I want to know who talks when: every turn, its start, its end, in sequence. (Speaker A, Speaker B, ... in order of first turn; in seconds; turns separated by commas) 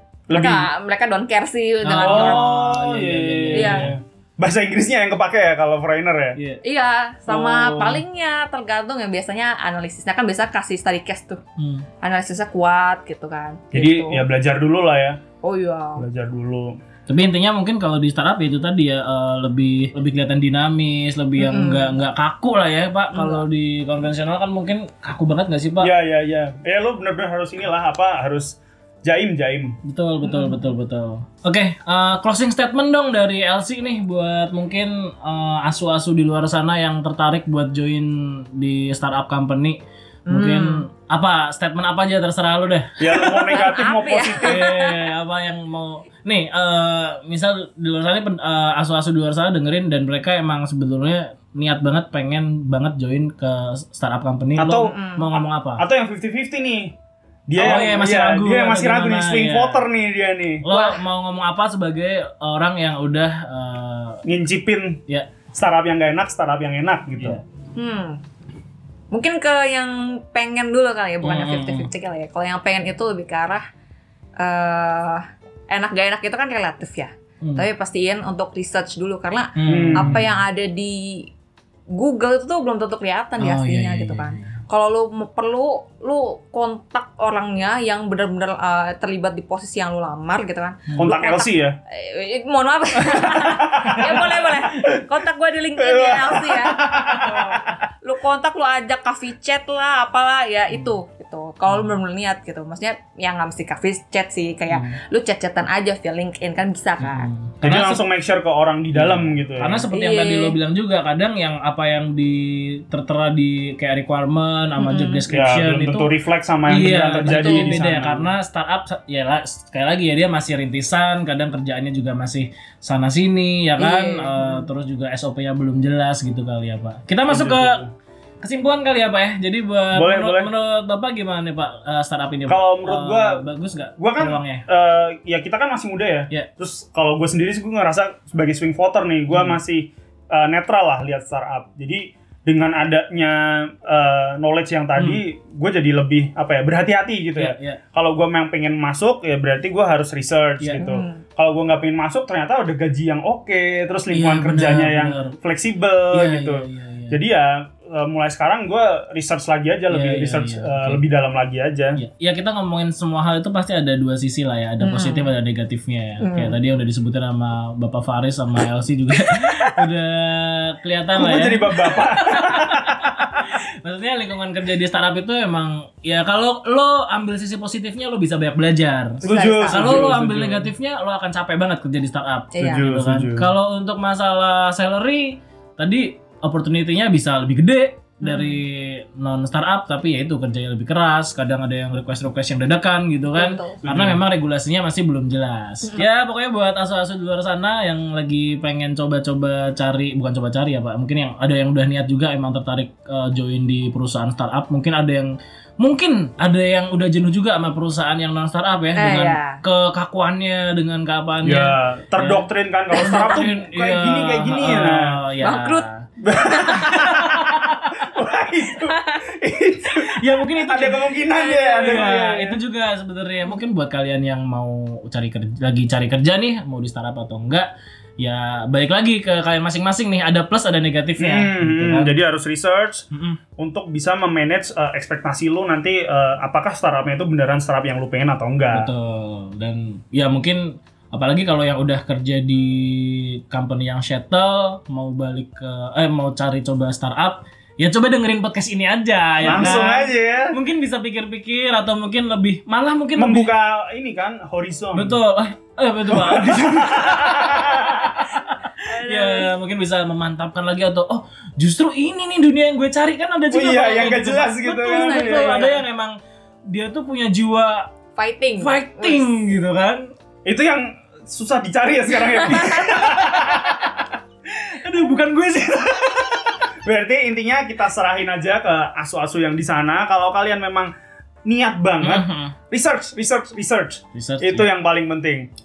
Speaker A: 0.3-0.7, Speaker B: 0.3-2.5, Speaker C: 1.9-4.0, Speaker A: 1.9-6.4, Speaker B: 3.5-3.9, Speaker C: 6.4-6.6, Speaker B: 6.6-11.4, Speaker A: 7.3-8.0, Speaker C: 11.6-11.9, Speaker B: 12.0-14.2, Speaker A: 13.7-15.2, Speaker B: 15.4-16.1, Speaker A: 16.0-16.8, Speaker C: 17.1-25.9, Speaker B: 21.4-22.0, Speaker B: 23.1-23.4, Speaker A: 25.8-29.8, Speaker C: 29.8-43.2, Speaker B: 30.2-30.6, Speaker B: 40.3-40.9, Speaker A: 43.0-44.7, Speaker B: 43.1-45.0, Speaker C: 44.4-55.8, Speaker A: 54.6-54.9, Speaker B: 54.8-55.3, Speaker A: 55.8-57.0, Speaker A: 57.5-60.6, Speaker C: 57.5-59.9, Speaker C: 60.6-64.2, Speaker B: 60.7-61.0, Speaker A: 64.3-67.4, Speaker B: 67.8-68.2, Speaker B: 69.1-73.7, Speaker C: 71.2-71.9, Speaker B: 74.4-81.3, Speaker C: 79.6-80.2, Speaker A: 79.7-80.2, Speaker B: 81.9-107.3, Speaker C: 83.4-84.6, Speaker A: 91.0-91.8, Speaker A: 93.4-94.2, Speaker C: 93.9-94.6, Speaker A: 95.8-97.8, Speaker C: 97.2-97.8, Speaker C: 104.7-105.0, Speaker C: 107.0-108.0, Speaker A: 107.6-109.9, Speaker C: 108.9-116.1, Speaker B: 109.9-110.5, Speaker B: 114.8-115.2, Speaker A: 115.3-118.3, Speaker C: 116.7-127.8, Speaker B: 117.3-117.7, Speaker B: 123.8-124.7, Speaker A: 127.3-127.9, Speaker C: 128.4-134.7, Speaker A: 129.9-130.5, Speaker A: 132.5-133.5, Speaker A: 134.0-162.0, Speaker C: 139.3-139.6, Speaker C: 144.9-145.2, Speaker C: 147.4-147.8, Speaker C: 150.6-150.8, Speaker B: 150.8-151.2, Speaker C: 154.1-155.3, Speaker C: 156.1-157.2, Speaker C: 159.9-161.0, Speaker C: 162.0-216.0, Speaker B: 164.8-165.3, Speaker B: 166.2-166.6, Speaker A: 171.2-173.1, Speaker A: 179.2-180.7, Speaker B: 179.2-180.1, Speaker B: 182.5-182.9, Speaker A: 182.6-183.5, Speaker B: 188.2-188.6, Speaker B: 193.4-193.8, Speaker A: 193.8-194.2, Speaker B: 209.0-209.6, Speaker A: 211.4-215.2, Speaker B: 215.4-216.8, Speaker A: 216.2-222.6, Speaker C: 216.6-217.9, Speaker B: 218.9-219.2, Speaker C: 220.0-227.7, Speaker B: 221.3-221.9, Speaker C: 228.2-232.1, Speaker A: 231.2-233.1, Speaker C: 233.1-233.4, Speaker A: 233.6-238.9, Speaker C: 238.7-253.5, Speaker A: 249.4-250.6, Speaker B: 249.5-249.8, Speaker A: 253.2-255.2, Speaker C: 254.9-266.2, Speaker A: 256.1-258.2, Speaker B: 258.8-259.5, Speaker A: 263.5-265.8, Speaker B: 264.9-265.8, Speaker C: 266.7-267.9, Speaker B: 268.2-269.3, Speaker C: 268.6-270.1, Speaker A: 270.4-273.8, Speaker B: 272.2-272.9, Speaker C: 272.7-273.6, Speaker C: 274.5-276.6, Speaker A: 276.8-280.9, Speaker A: 281.4-285.5, Speaker C: 282.0-282.6, Speaker C: 284.1-284.7